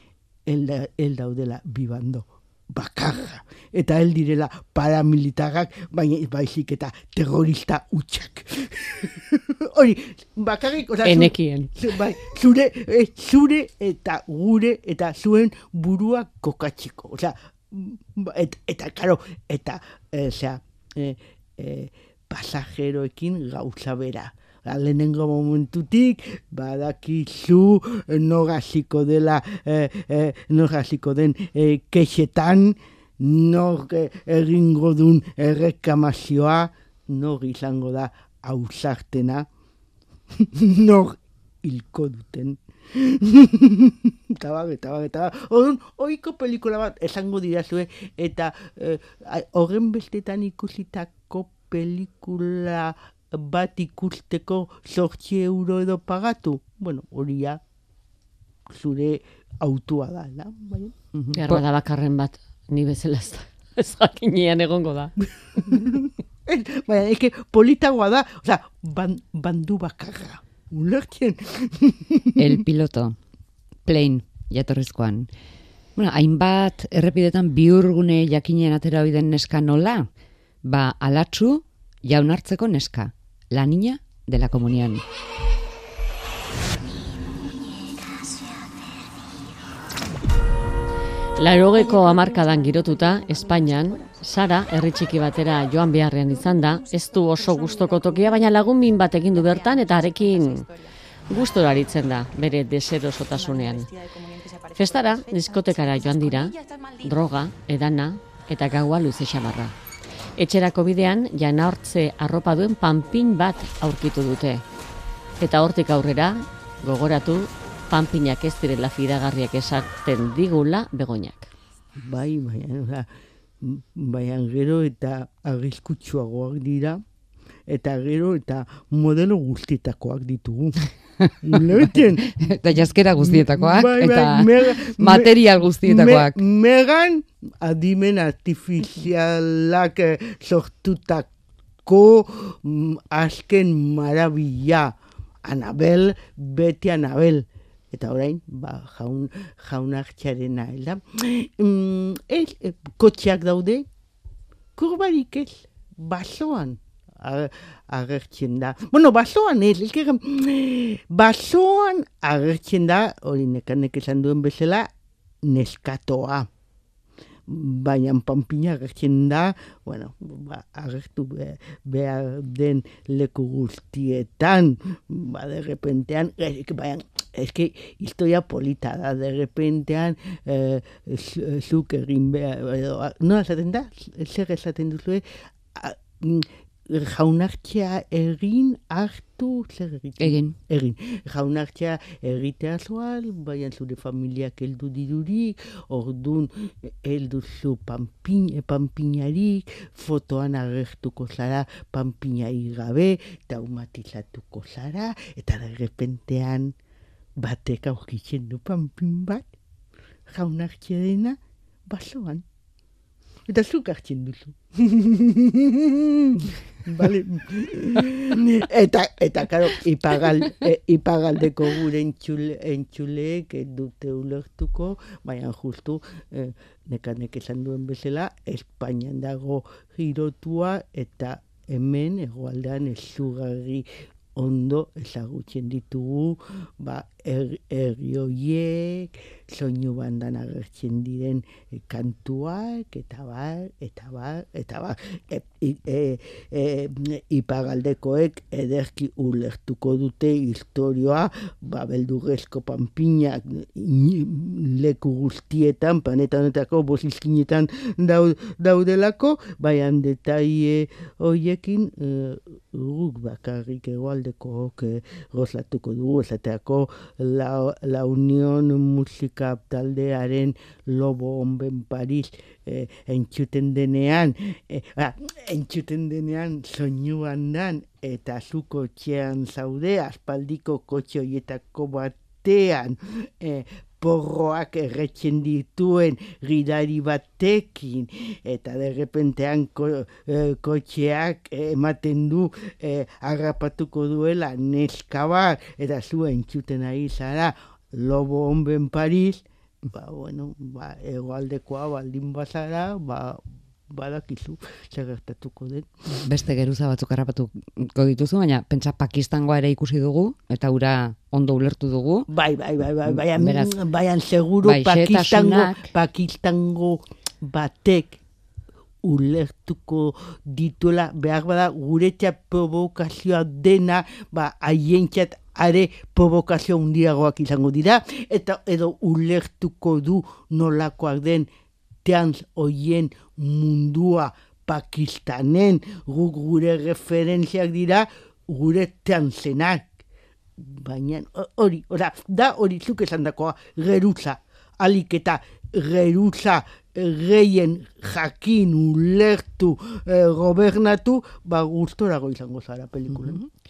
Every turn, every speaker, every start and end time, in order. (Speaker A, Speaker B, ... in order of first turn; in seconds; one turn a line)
Speaker A: 0.5-39.5
Speaker B: 11.0-11.7
Speaker A: 40.3-57.6
Speaker A: 58.7-60.9
Speaker C: 61.2-61.6
Speaker B: 61.3-65.1
Speaker A: 65.3-72.5
Speaker C: 72.4-73.2
Speaker C: 73.8-75.3
Speaker C: 76.0-80.1
Speaker C: 80.6-85.0
Speaker B: 91.4-100.7
Speaker B: 101.3-103.9
Speaker B: 104.7-109.7
Speaker B: 110.4-114.6
Speaker B: 115.4-121.5
Speaker A: 122.0-123.1
Speaker A: 123.6-127.0
Speaker A: 127.7-130.9
Speaker A: 131.4-132.3
Speaker C: 132.3-136.4
Speaker A: 133.2-141.3
Speaker A: 141.8-153.9
Speaker A: 154.8-164.9
Speaker A: 165.4-166.5
Speaker A: 167.5-185.2
Speaker A: 185.7-206.7
Speaker C: 190.2-190.6
Speaker A: 207.4-209.5
Speaker A: 210.3-212.4
Speaker A: 213.5-305.9
Speaker C: 306.2-312.3
Speaker A: 312.3-318.2
Speaker C: 313.1-313.8
Speaker C: 314.6-315.9
Speaker A: 319.0-331.5
Speaker A: 332.0-339.9
Speaker A: 340.6-353.4
Speaker C: 353.1-353.4